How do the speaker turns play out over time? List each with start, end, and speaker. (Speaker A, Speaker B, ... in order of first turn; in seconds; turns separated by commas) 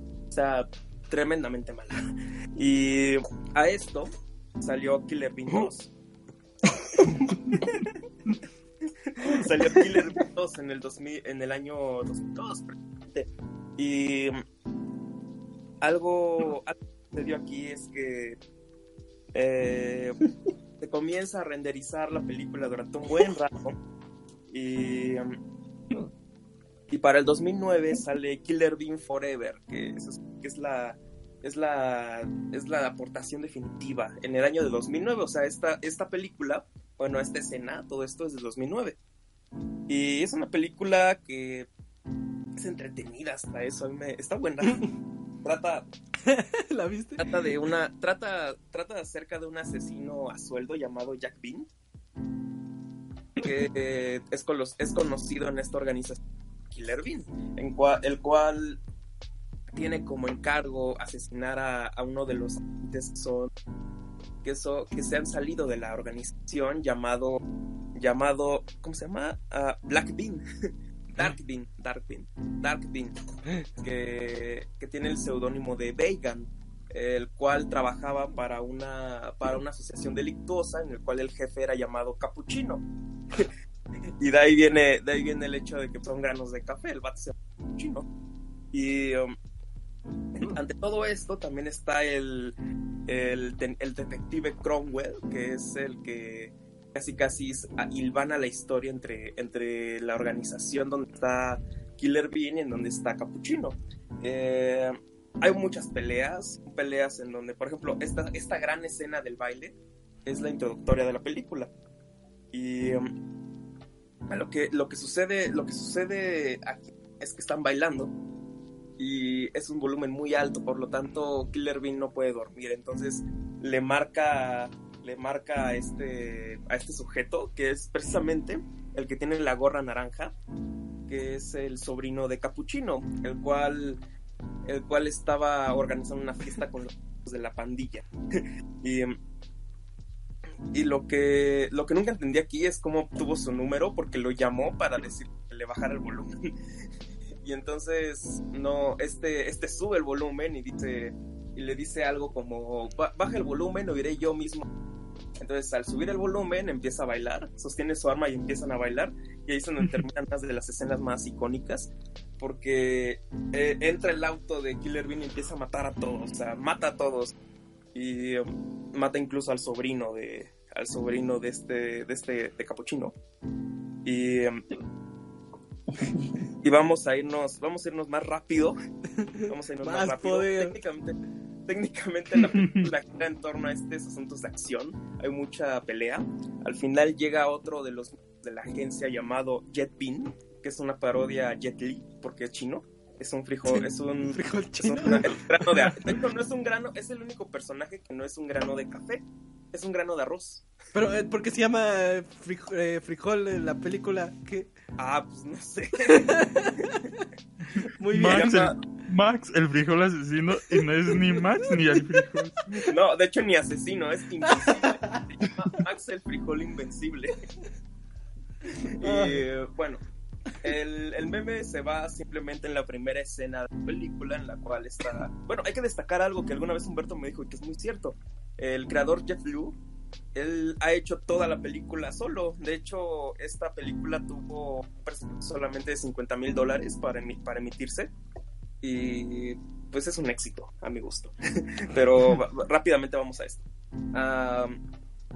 Speaker A: 0.3-2.0, Speaker A: 2.5-5.9, Speaker A: 9.1-14.4, Speaker A: 15.8-18.4, Speaker A: 19.3-20.1, Speaker A: 20.8-23.8, Speaker A: 24.5-25.3, Speaker A: 26.9-39.0, Speaker A: 39.9-41.7, Speaker A: 42.6-44.9, Speaker A: 45.4-45.9, Speaker B: 46.2-47.2, Speaker A: 47.2-51.7, Speaker A: 53.4-56.2, Speaker A: 56.7-58.8, Speaker A: 59.7-63.5, Speaker A: 64.4-67.4, Speaker A: 68.0-70.4, Speaker A: 71.2-73.2, Speaker A: 73.8-83.5, Speaker A: 84.2-88.0, Speaker A: 88.7-89.3, Speaker A: 90.3-92.5, Speaker A: 93.1-111.7, Speaker A: 112.5-113.1, Speaker A: 114.3-118.1, Speaker A: 119.0-130.3, Speaker A: 131.1-134.0, Speaker A: 134.7-139.2, Speaker A: 140.7-146.3, Speaker A: 147.4-154.7, Speaker A: 155.4-167.3, Speaker A: 167.9-173.1, Speaker A: 174.0-174.6, Speaker A: 176.6-178.8, Speaker B: 179.2-180.8, Speaker A: 179.5-181.2, Speaker A: 181.7-200.6, Speaker B: 193.7-196.1, Speaker B: 200.9-204.7, Speaker A: 205.0-207.0, Speaker B: 208.0-208.6, Speaker C: 208.1-212.5, Speaker A: 208.2-208.7, Speaker A: 212.8-217.4, Speaker A: 219.0-220.0, Speaker B: 219.0-219.4, Speaker A: 220.6-229.8, Speaker A: 230.3-238.1, Speaker A: 238.8-244.8